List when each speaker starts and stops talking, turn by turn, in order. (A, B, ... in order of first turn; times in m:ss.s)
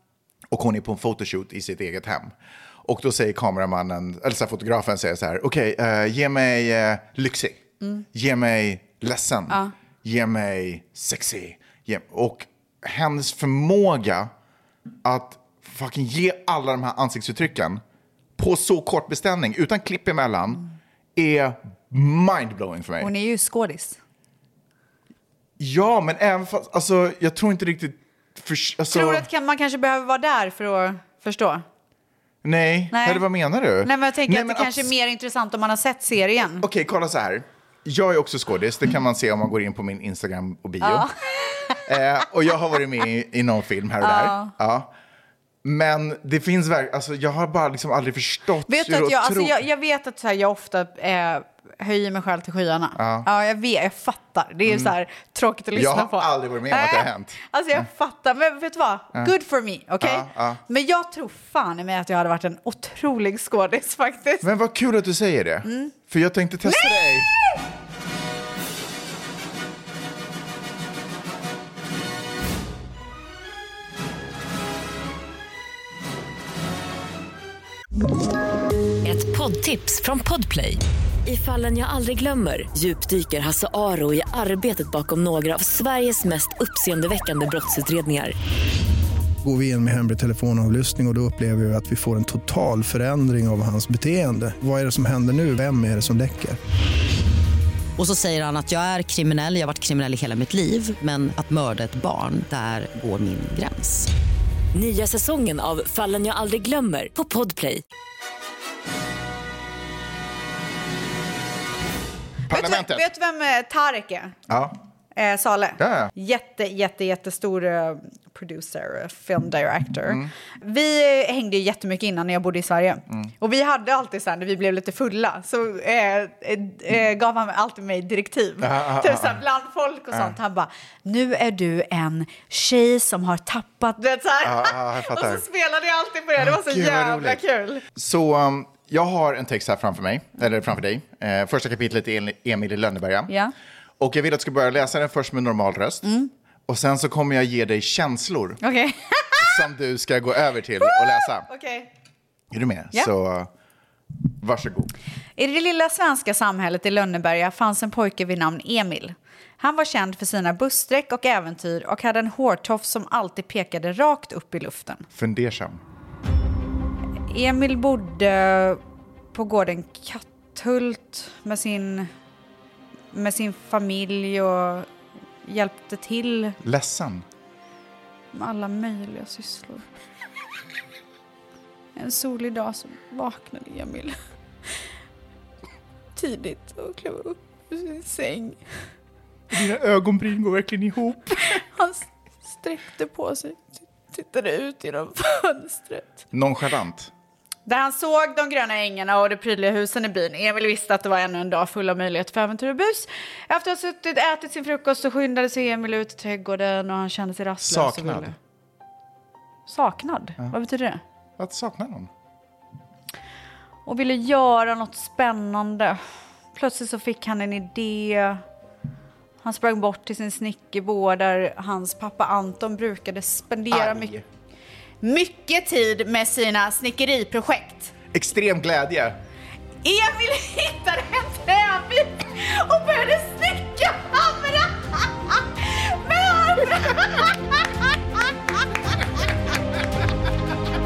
0:00.5-0:07.6 A
0:08.1-0:14.3 A
0:15.0-0:17.8 A
0:18.4-0:20.6 A
0:21.2-0:23.1 A
0:23.0-0:24.0 B
0:25.6-0:29.3 A
0:28.9-0:31.6 B
0:32.4-0:34.9 A
0:32.9-0:33.2 B
0:33.8-0:36.6 B
0:36.4-0:41.1 A
0:40.8-0:41.9 B
0:41.8-0:44.9 A
0:44.0-0:44.5 B
0:45.6-0:49.5 A
0:48.7-1:04.4 B
0:52.9-0:53.3 A
0:54.6-0:54.9 A
0:55.7-0:57.8 A
1:00.0-1:00.6 A
1:04.4-1:07.3 A
1:05.6-1:05.9 B
1:06.6-1:07.6 B
1:19.0-1:28.3 C
1:29.4-1:36.6 D
1:38.0-1:44.1 E
1:44.7-1:47.8 C
1:52.5-1:53.1 A
1:52.5-1:54.4 B
1:54.5-1:54.8 A
1:55.1-2:17.8 B
1:55.8-1:56.1 A
2:08.6-2:09.4 A
2:14.4-2:15.4 A
2:16.4-2:17.4 A
2:17.9-2:23.3 A
2:24.0-2:26.0 A
2:26.0-2:26.3 B
2:26.7-2:28.6 A
2:28.6-2:29.6 B
2:29.4-2:31.5 A
2:30.8-2:31.9 B
2:32.5-2:33.5 A
2:34.4-2:34.9 A
2:35.4-2:45.0 B
2:45.1-2:45.8 A
2:47.3-2:48.8 B
2:49.3-2:52.1 B
2:53.1-2:54.9 B
2:55.4-2:56.6 B
2:56.6-2:57.2 A
2:58.3-2:59.8 B
3:02.0-3:04.2 B
3:06.2-3:08.6 B
3:09.5-3:11.6 A
3:11.4-3:16.1 B
3:16.3-3:17.1 A
3:17.7-3:28.3 B
3:27.6-3:28.3 A
3:29.7-3:31.0 B
3:31.4-3:32.1 A
3:33.8-3:36.0 B
3:36.5-3:38.4 B
3:39.4-3:44.1 B
3:43.7-3:44.2 A
3:45.0-3:47.9 B
3:48.1-3:49.2 A
3:49.8-3:57.7 B